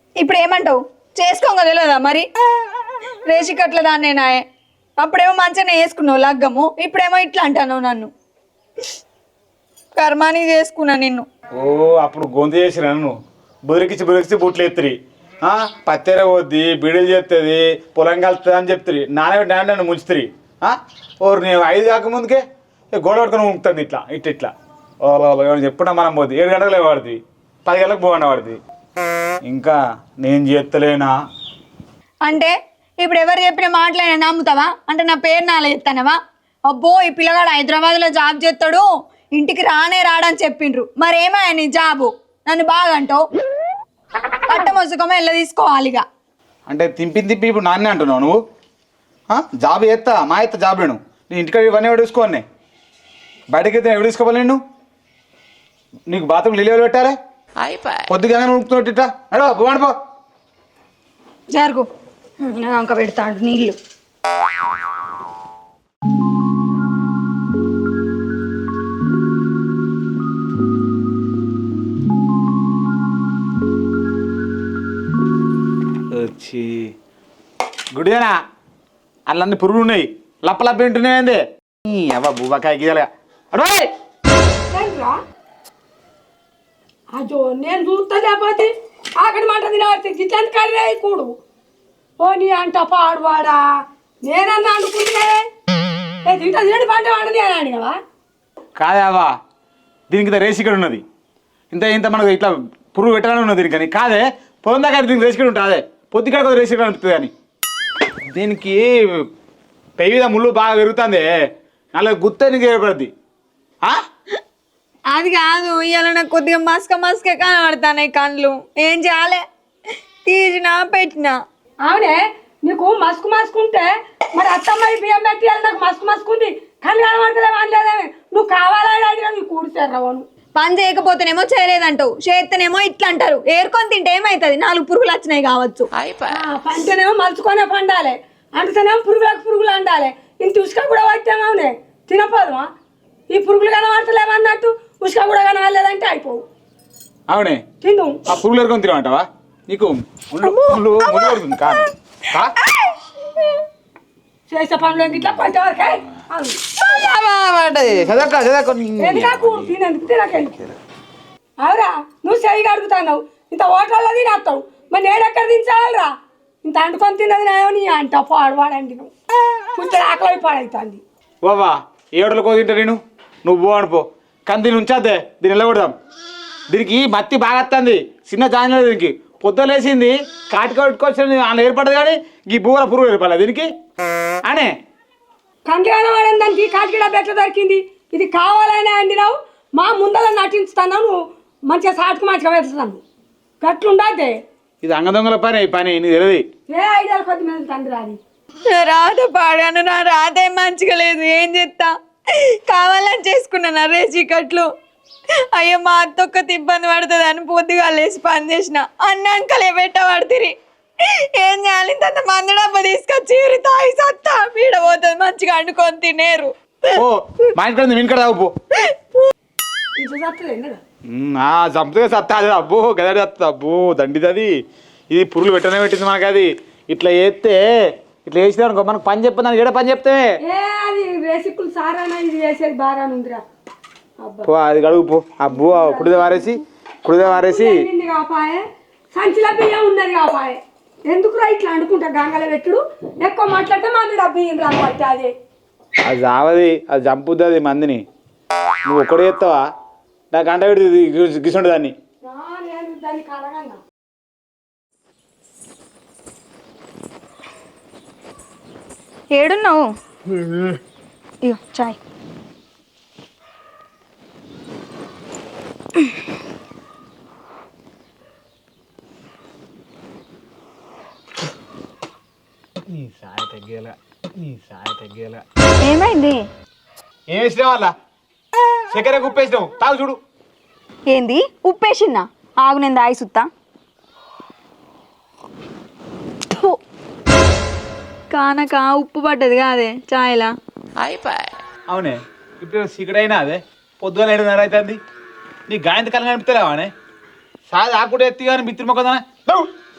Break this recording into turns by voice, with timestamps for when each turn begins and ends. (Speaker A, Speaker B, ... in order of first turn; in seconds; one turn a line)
Speaker A: 0.2-2.3
Speaker A: 3.2-4.4
Speaker A: 5.0-8.1
Speaker A: 9.9-11.2
Speaker B: 11.6-13.1
Speaker B: 13.7-22.4
Speaker B: 22.9-24.5
Speaker B: 25.0-28.6
Speaker B: 29.4-31.1
Speaker A: 32.2-36.2
Speaker A: 36.7-43.2
Speaker A: 44.5-46.0
Speaker B: 46.7-48.4
Speaker B: 49.3-52.4
Speaker B: 53.5-54.6
Speaker B: 56.1-57.1
Speaker B: 58.1-59.9
Speaker A: 61.5-61.9
Speaker A: 62.4-63.8
Speaker B: 76.1-76.9
Speaker B: 77.9-78.3
Speaker B: 79.3-83.9
Speaker C: 84.7-85.2
Speaker C: 87.1-91.3
Speaker C: 92.2-93.6
Speaker C: 94.2-95.4
Speaker C: 96.2-98.0
Speaker B: 98.8-99.3
Speaker B: 100.1-101.0
Speaker B: 101.7-107.3
Speaker B: 108.3-109.2
Speaker B: 110.0-111.3
Speaker B: 111.9-113.1
Speaker A: 115.1-119.4
Speaker A: 120.2-121.3
Speaker C: 121.8-130.2
Speaker A: 130.6-135.9
Speaker C: 136.3-142.7
Speaker C: 143.3-146.4
Speaker B: 147.3-147.6
Speaker C: 147.8-148.2
Speaker B: 148.3-152.5
Speaker A: 150.4-151.3
Speaker A: 152.7-153.4
Speaker C: 154.5-156.6
Speaker B: 157.0-159.7
Speaker C: 159.0-160.6
Speaker C: 161.6-166.1
Speaker C: 166.6-169.1
Speaker C: 169.7-171.0
Speaker B: 171.4-175.9
Speaker B: 176.7-183.7
Speaker B: 184.4-184.7
Speaker C: 185.7-193.0
Speaker C: 193.6-194.4
Speaker B: 194.8-196.4
Speaker C: 196.7-198.2
Speaker A: 198.6-204.7
Speaker A: 205.5-217.0
Speaker B: 216.9-218.5
Speaker C: 219.9-220.8
Speaker B: 221.1-224.5
Speaker B: 225.1-227.6
Speaker B: 228.2-230.3
Speaker C: 230.4-233.4
Speaker C: 234.2-234.5
Speaker B: 234.4-237.8
Speaker C: 235.7-236.2
Speaker C: 237.2-245.3
Speaker B: 246.0-248.0
Speaker B: 248.8-249.6
Speaker B: 250.3-251.9
Speaker C: 252.2-253.8
Speaker A: 259.3-259.9
Speaker A: 261.4-262.0
Speaker B: 272.9-275.4
Speaker A: 275.8-276.4
Speaker B: 277.3-277.9
Speaker B: 278.9-280.2
Speaker A: 281.1-283.5
Speaker A: 286.5-286.8
Speaker A: 288.3-290.5
Speaker B: 291.9-295.0
Speaker B: 295.7-296.9
Speaker B: 297.7-299.7